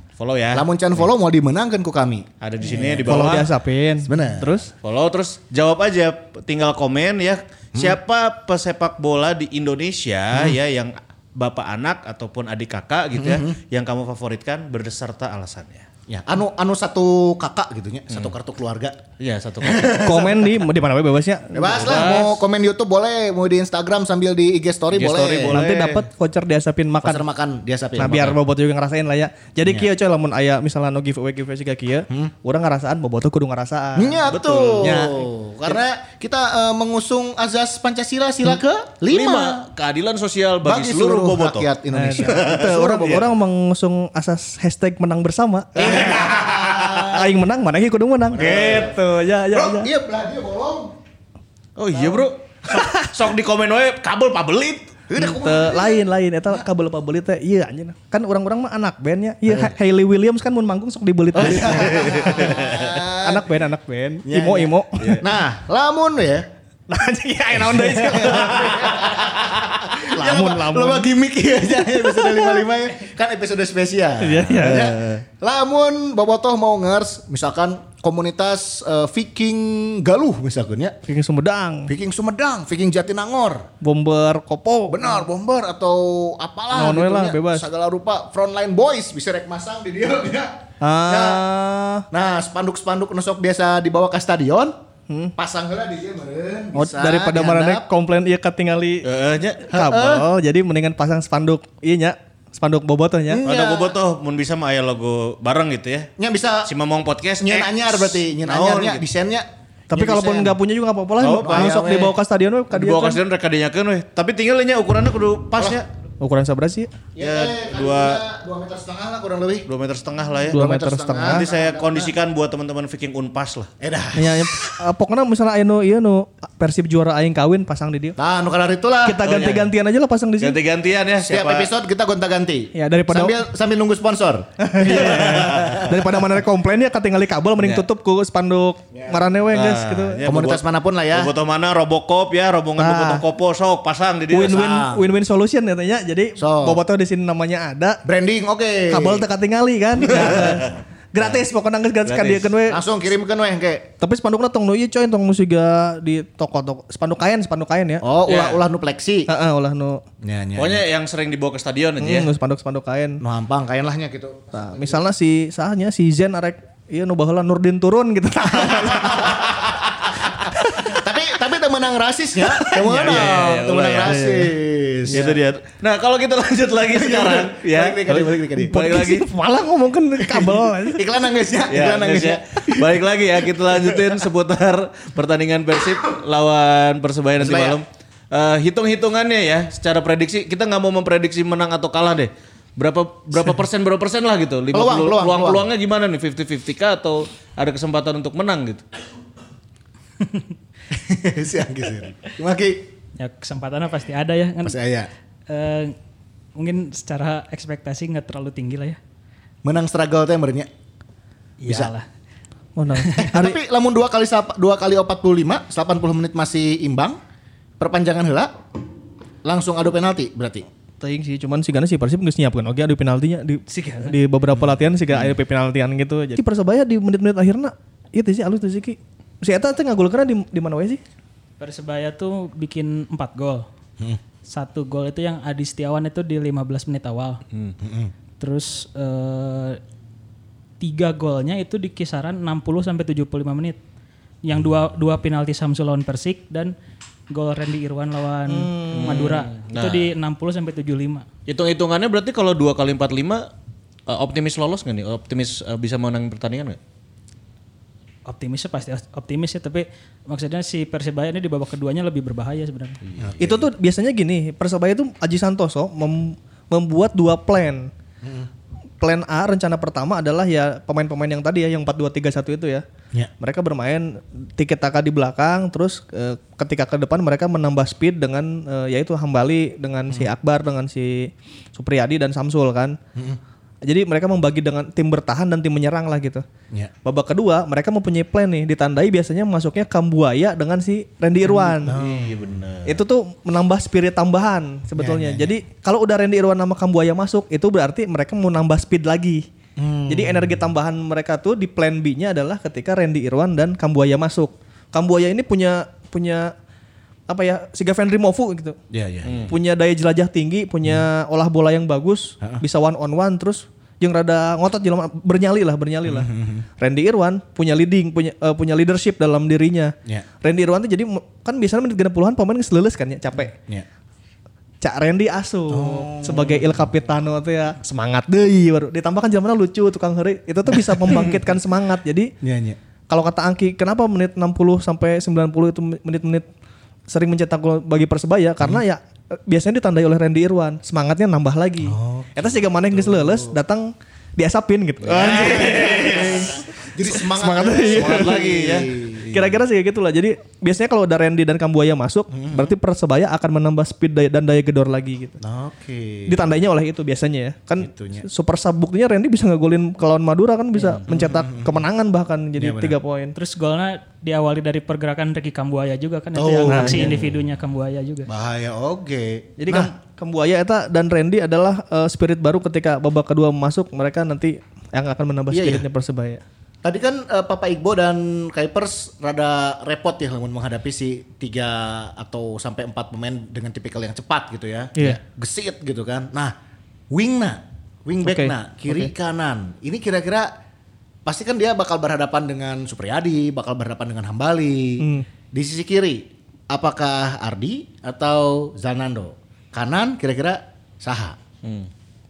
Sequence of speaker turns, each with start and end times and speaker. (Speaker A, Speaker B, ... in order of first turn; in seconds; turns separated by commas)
Speaker A: 0.2-1.0, Speaker B: 0.5-3.5, Speaker A: 2.4-3.5, Speaker C: 3.0-4.7, Speaker B: 4.0-4.5, Speaker A: 4.8-15.8, Speaker B: 13.2-13.6, Speaker B: 16.1-19.0, Speaker A: 19.2-20.3, Speaker B: 19.6-20.4, Speaker C: 20.0-22.0, Speaker B: 21.5-25.6, Speaker A: 21.6-22.4, Speaker A: 24.9-26.1, Speaker C: 25.5-27.2, Speaker B: 27.0-28.3, Speaker C: 27.9-35.1, Speaker B: 34.0-39.6, Speaker A: 34.3-35.1, Speaker A: 39.1-43.2, Speaker B: 40.6-43.3, Speaker C: 41.9-46.1, Speaker A: 45.8-47.1, Speaker B: 45.8-47.3, Speaker C: 47.1-49.9, Speaker B: 48.3-49.0, Speaker A: 48.4-48.9, Speaker B: 49.5-50.9, Speaker A: 51.8-55.0, Speaker B: 55.1-56.6, Speaker C: 55.2-62.5, Speaker B: 61.3-63.5, Speaker A: 61.4-63.0, Speaker C: 63.2-65.2, Speaker B: 64.2-66.5, Speaker C: 66.9-69.1, Speaker B: 67.5-81.0, Speaker C: 69.9-71.1, Speaker C: 71.9-72.6, Speaker C: 74.2-74.9, Speaker A: 74.5-75.2, Speaker C: 81.0-81.9, Speaker B: 81.9-83.7, Speaker C: 83.8-85.1, Speaker B: 84.9-90.5, Speaker C: 86.7-87.7, Speaker C: 90.8-92.0, Speaker B: 91.0-91.4, Speaker B: 92.1-94.7, Speaker C: 95.1-95.3, Speaker B: 95.3-97.9, Speaker C: 96.7-99.1, Speaker A: 99.0-99.7, Speaker C: 99.7-103.4, Speaker B: 99.7-100.2, Speaker B: 103.3-104.0, Speaker A: 103.4-106.1, Speaker B: 106.2-106.7, Speaker A: 106.7-109.0, Speaker B: 107.4-110.6, Speaker C: 109.9-113.2, Speaker A: 111.2-112.0, Speaker B: 111.4-112.1, Speaker A: 112.7-115.9, Speaker B: 115.5-115.8, Speaker C: 116.2-116.9, Speaker B: 117.2-119.7, Speaker A: 117.2-118.2, Speaker A: 119.7-120.6, Speaker B: 120.5-122.1, Speaker C: 120.5-121.4, Speaker A: 121.2-123.7, Speaker B: 123.8-124.7, Speaker C: 124.2-128.2, Speaker B: 128.2-129.5, Speaker C: 129.0-130.6, Speaker A: 129.2-129.7, Speaker A: 130.4-131.7, Speaker B: 131.2-136.1, Speaker C: 132.7-133.4, Speaker C: 134.6-140.2, Speaker A: 134.8-135.9, Speaker A: 137.6-137.8, Speaker B: 138.9-139.2, Speaker A: 139.5-140.6, Speaker B: 140.2-141.3, Speaker A: 141.1-144.6, Speaker C: 142.8-143.2, Speaker C: 144.3-148.0, Speaker B: 144.3-145.1, Speaker B: 146.4-146.8, Speaker B: 148.0-149.2, Speaker C: 148.9-152.8, Speaker B: 150.0-150.5, Speaker A: 150.1-150.5, Speaker A: 152.0-152.5, Speaker B: 152.7-153.9, Speaker C: 154.0-158.0, Speaker B: 158.0-159.3, Speaker A: 158.3-158.6, Speaker C: 159.3-160.0, Speaker B: 160.2-160.8, Speaker A: 160.6-162.3, Speaker C: 162.0-163.2, Speaker B: 163.2-165.0, Speaker C: 164.5-169.5, Speaker B: 168.6-175.3, Speaker C: 170.5-171.0, Speaker C: 172.5-172.9, Speaker A: 172.8-174.3, Speaker C: 174.1-174.4, Speaker C: 175.1-175.3, Speaker A: 175.1-179.3, Speaker B: 176.9-178.9, Speaker C: 178.1-181.1, Speaker B: 180.2-184.3, Speaker A: 181.7-198.8, Speaker B: 187.4-187.8, Speaker B: 194.7-195.7, Speaker B: 200.9-202.9, Speaker D: 203.2-204.8, Speaker B: 204.6-205.1, Speaker D: 205.5-205.9, Speaker D: 206.6-209.0, Speaker B: 209.6-210.7, Speaker D: 211.6-212.1, Speaker B: 211.7-211.9, Speaker C: 212.8-213.6, Speaker B: 213.1-217.2, Speaker B: 217.8-218.5, Speaker B: 219.4-220.7, Speaker C: 221.0-231.0, Speaker D: 223.7-224.1, Speaker D: 231.6-233.6, Speaker D: 234.4-237.4, Speaker B: 237.8-238.1, Speaker D: 238.4-239.8, Speaker D: 240.8-243.8, Speaker D: 244.4-246.7, Speaker D: 247.3-251.3, Speaker C: 248.5-249.3, Speaker A: 248.9-250.1, Speaker A: 251.5-253.5, Speaker A: 254.1-256.8, Speaker D: 258.2-263.0, Speaker A: 263.0-263.4, Speaker B: 263.2-263.6, Speaker C: 263.4-267.9, Speaker B: 268.2-268.5, Speaker C: 269.0-272.8, Speaker C: 273.4-283.0, Speaker C: 283.8-286.4, Speaker C: 287.0-292.0, Speaker A: 291.7-293.0, Speaker B: 291.8-292.6, Speaker C: 292.9-299.4, Speaker B: 295.0-295.5, Speaker B: 299.8-300.6, Speaker C: 300.1-306.5, Speaker C: 307.3-308.8, Speaker B: 308.9-309.5, Speaker A: 309.2-309.5, Speaker C: 309.5-323.5, Speaker B: 316.1-316.6, Speaker B: 323.5-323.9, Speaker C: 324.8-332.3, Speaker B: 325.7-326.9, Speaker B: 332.4-332.8, Speaker C: 333.1-336.5, Speaker C: 337.1-348.4, Speaker B: 341.8-343.6, Speaker A: 345.0-346.6, Speaker B: 345.0-349.3, Speaker A: 347.8-349.5, Speaker C: 349.3-355.4, Speaker B: 352.3-352.7, Speaker B: 355.4-356.4, Speaker C: 356.3-363.3, Speaker B: 357.8-358.3, Speaker B: 361.1-361.8, Speaker B: 362.6-363.0, Speaker D: 363.3-368.3, Speaker B: 366.3-367.3, Speaker C: 366.6-367.1, Speaker B: 368.3-369.9, Speaker C: 369.6-376.4, Speaker B: 375.5-375.8, Speaker B: 376.8-386.5, Speaker B: 387.1-390.5, Speaker C: 388.2-389.1, Speaker B: 391.2-401.4, Speaker C: 395.0-395.3, Speaker A: 401.6-401.9